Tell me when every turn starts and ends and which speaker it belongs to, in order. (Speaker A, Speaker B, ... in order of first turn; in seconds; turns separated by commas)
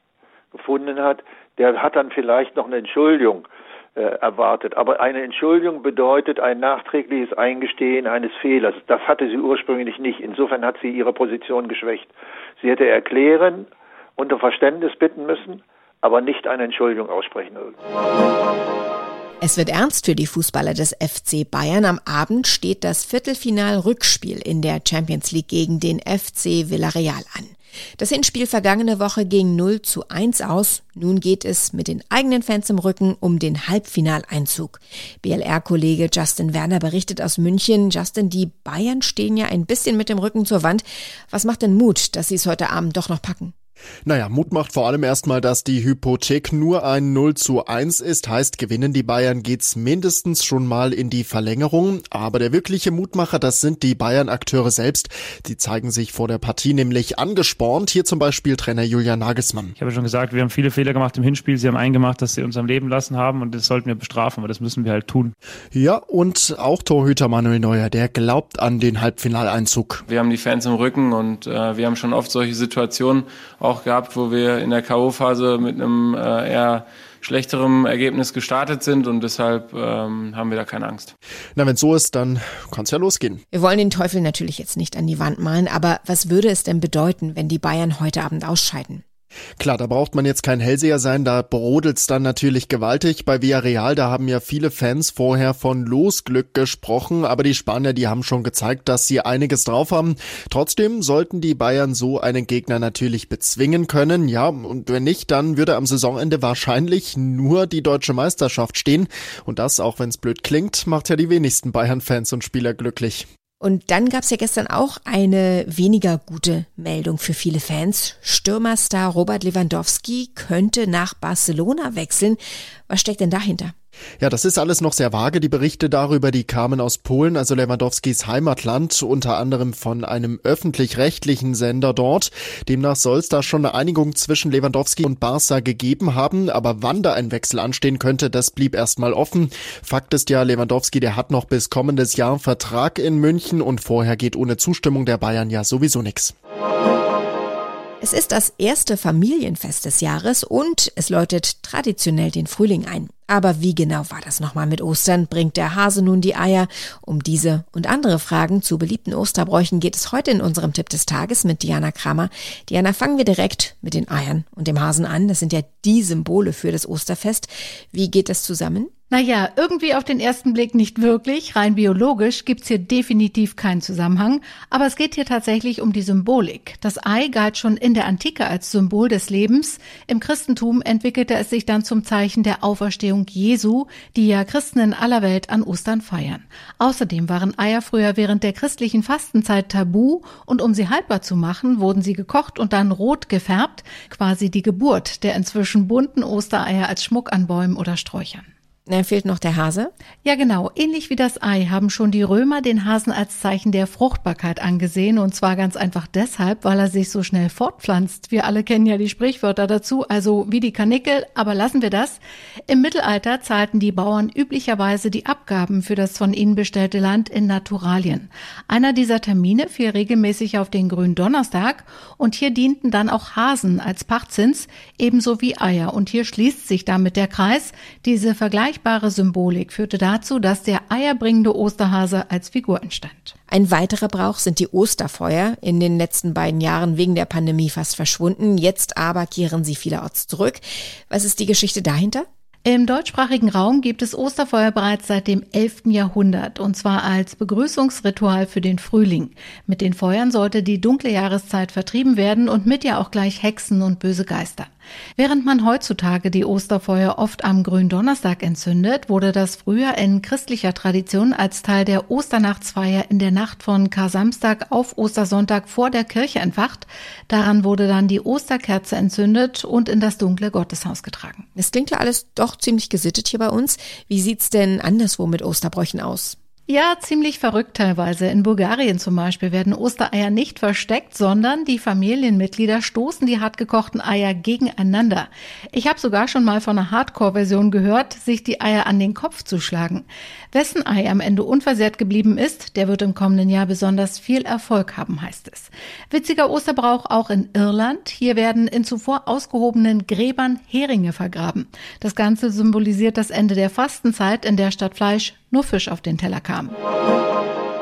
Speaker A: 0.5-17.8, Speaker B: 19.4-43.5, Speaker C: 44.0-59.7, Speaker D: 59.8-65.3, Speaker C: 65.7-70.0, Speaker E: 70.1-81.1, Speaker C: 81.5-83.4, Speaker B: 83.5-89.0, Speaker C: 89.6-113.2, Speaker B: 113.6-123.7, Speaker C: 124.2-146.3, Speaker B: 148.0-168.9, Speaker F: 169.1-198.5, Speaker B: 198.9-199.9, Speaker F: 200.2-233.3, Speaker B: 233.5-242.3, Speaker F: 242.6-271.4, Speaker B: 271.6-276.4, Speaker F: 276.7-306.8